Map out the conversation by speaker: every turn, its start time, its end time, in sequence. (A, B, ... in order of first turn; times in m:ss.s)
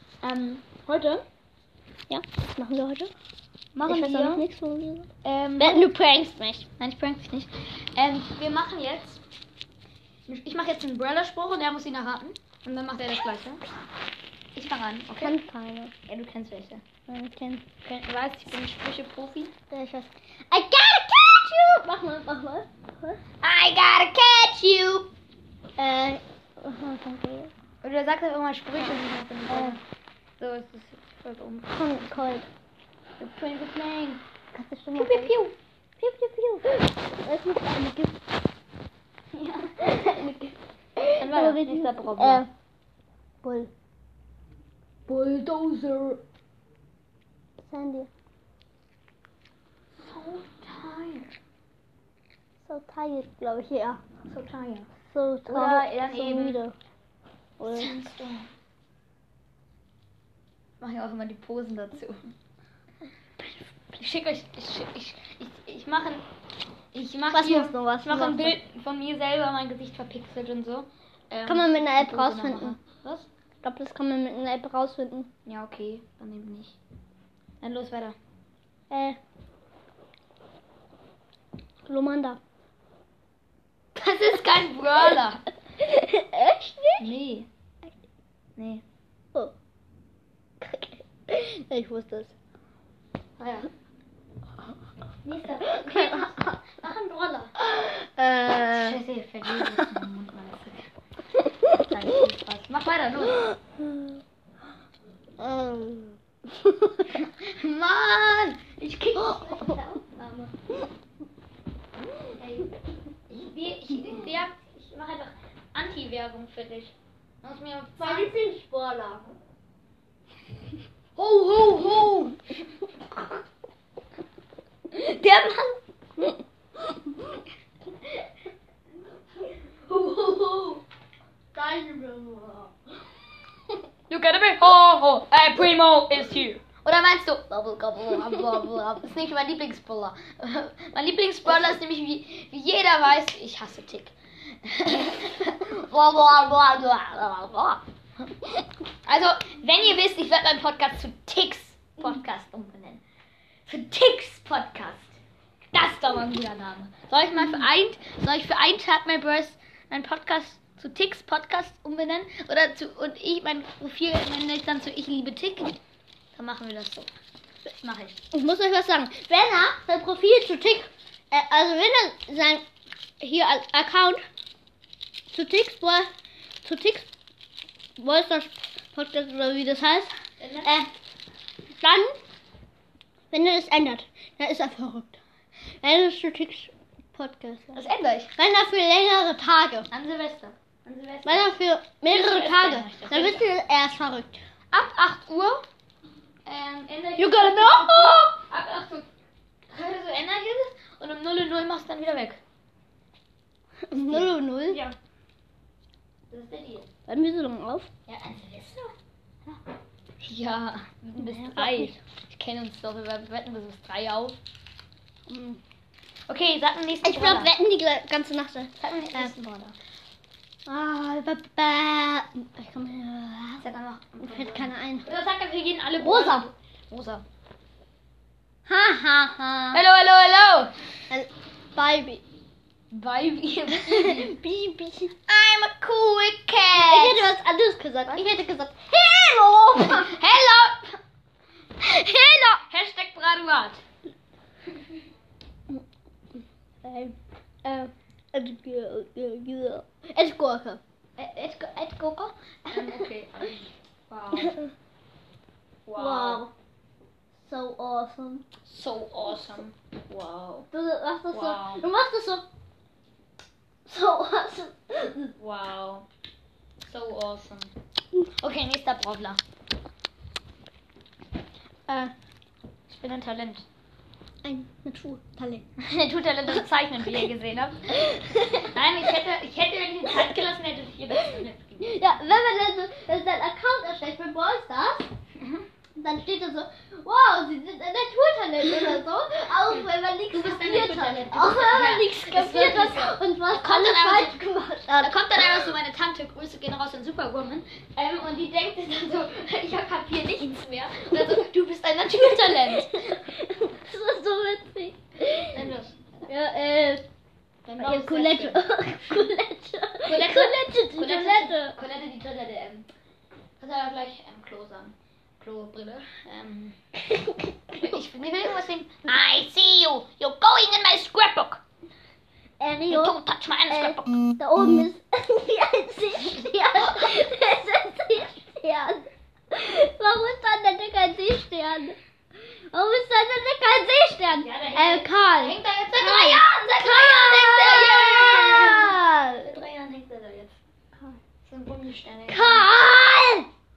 0:00.2-0:01.2 A
0:02.1-0:03.1 B
0:03.7-0:04.4 A
0:03.9-0:06.7 B
0:05.2-0:05.9 A
0:06.8-0:09.2 A
0:10.3-0:13.6 A
0:14.5-0:15.4 A
0:15.1-0:15.9 B
0:16.1-0:16.8 A
0:17.1-0:17.6 B
0:17.8-0:19.5 A
0:19.7-0:23.2 B
0:23.4-0:25.1 A
0:25.8-0:27.5 B
0:27.8-0:29.8 A
0:28.8-0:29.8 B
0:30.4-0:32.1 A
0:31.7-0:32.5 B
0:33.2-0:34.2 A
0:34.5-0:35.3 B
0:34.9-0:35.6 A
0:36.0-0:38.2 B
0:39.3-0:40.0 A
0:39.8-0:42.5 B
0:41.2-0:42.4 A
0:43.4-0:43.7 B
0:45.1-0:46.2 A
0:47.6-0:48.1 B
0:49.9-0:51.4 A
0:52.6-0:54.0 B
0:54.3-0:54.9 A
0:55.1-0:56.7 B
0:55.5-0:56.6 A
0:57.6-0:57.9 B
0:57.6-0:58.5 A
1:00.8-1:02.2 A
1:03.9-1:06.2 A
1:06.9-1:13.3 A
1:07.3-1:08.6 B
1:11.4-1:12.8 B
1:13.6-1:15.3 B
1:15.4-1:16.8 A
1:17.6-1:18.2 A
1:18.9-1:19.2 B
1:21.8-1:22.4 B
1:23.9-1:25.4 A
1:25.8-1:27.0 B
1:27.0-1:27.5 A
1:28.6-1:28.8 A
1:30.6-1:32.3 B
1:33.4-1:33.7 A
1:35.2-1:37.5 A
1:35.8-1:36.2 B
1:37.6-1:39.0 B
1:38.7-1:40.9 A
1:41.7-1:43.5 A
1:45.4-1:47.1 B
1:47.1-1:50.5 A
1:49.2-1:49.8 B
1:52.4-1:52.7 A
1:53.3-1:58.3 A
1:58.0-1:59.3 B
2:01.2-2:02.5 A
2:04.9-2:05.8 A
2:09.9-2:10.8 B
2:11.5-2:12.7 B
2:14.1-2:27.8 A
2:29.0-2:33.0 A
2:33.6-2:35.2 A
2:35.7-2:45.8 A
2:46.3-2:47.1 A
2:47.7-2:48.2 A
2:48.3-2:52.6 B
2:53.2-2:54.2 B
2:55.3-2:56.1 B
2:56.6-2:57.0 B
2:58.0-3:00.1 B
3:00.4-3:00.8 A
3:00.6-3:00.9 B
3:01.8-3:02.2 B
3:03.3-3:05.2 B
3:05.8-3:07.8 B
3:07.7-3:08.3 A
3:08.4-3:09.9 B
3:09.9-3:11.5 A
3:11.2-3:14.4 B
3:12.1-3:13.4 A
3:14.7-3:15.6 A
3:16.4-3:19.1 A
3:17.2-3:18.2 B
3:19.7-3:22.4 A
3:23.9-3:24.8 B
3:23.9-3:25.0 A
3:26.3-3:26.9 A
3:27.1-3:27.9 B
3:28.1-3:28.9 A
3:30.2-3:34.4 A
3:31.2-3:32.0 B
3:35.3-3:35.6 B
3:36.3-3:37.6 A
3:37.0-3:39.3 B
3:38.8-3:39.8 A
3:40.7-3:43.7 B
3:43.6-3:47.2 A
3:44.2-3:45.1 B
3:46.0-3:46.5 B
3:48.7-3:49.8 B
3:49.7-3:50.7 A
3:51.1-3:52.2 B
3:52.9-3:54.3 A
3:53.7-3:55.1 B
3:55.3-3:57.3 A
3:56.7-4:00.1 B
3:59.8-4:00.9 A
4:01.8-4:02.6 B
4:02.6-4:03.8 A
4:06.8-4:10.8 B
4:11.2-4:14.6 A
4:12.7-4:13.1 B
4:14.4-4:14.7 B
4:15.8-4:16.4 A
4:16.0-4:16.5 B
4:17.4-4:18.4 B
4:18.7-4:20.7 A
4:20.7-4:22.4 B
4:21.3-4:21.8 A
4:23.8-4:25.3 B
4:25.4-4:26.0 A
4:26.8-4:27.7 A
4:28.3-4:29.4 A
4:31.9-4:32.1 B
4:32.9-4:33.6 A
4:34.4-4:35.6 B
4:35.8-4:42.0 A
4:37.9-4:38.7 B
4:41.8-4:45.1 B
4:46.0-4:55.7 B
4:48.6-4:49.0 A
4:50.3-5:03.1 A
5:02.4-5:05.6 B
5:05.5-5:06.3 A
5:06.3-5:07.0 B
5:07.6-5:09.3 A
5:07.8-5:11.8 B
5:10.0-5:12.9 A
5:13.6-5:16.7 A
5:17.0-5:17.8 B
5:17.7-5:21.6 A
5:22.6-5:23.2 B
5:22.9-5:24.3 A
5:23.7-5:32.0 B
5:26.4-5:27.1 A
5:32.7-5:39.4 B
5:34.3-5:40.6 A
5:41.4-5:42.7 A
5:42.3-5:43.5 B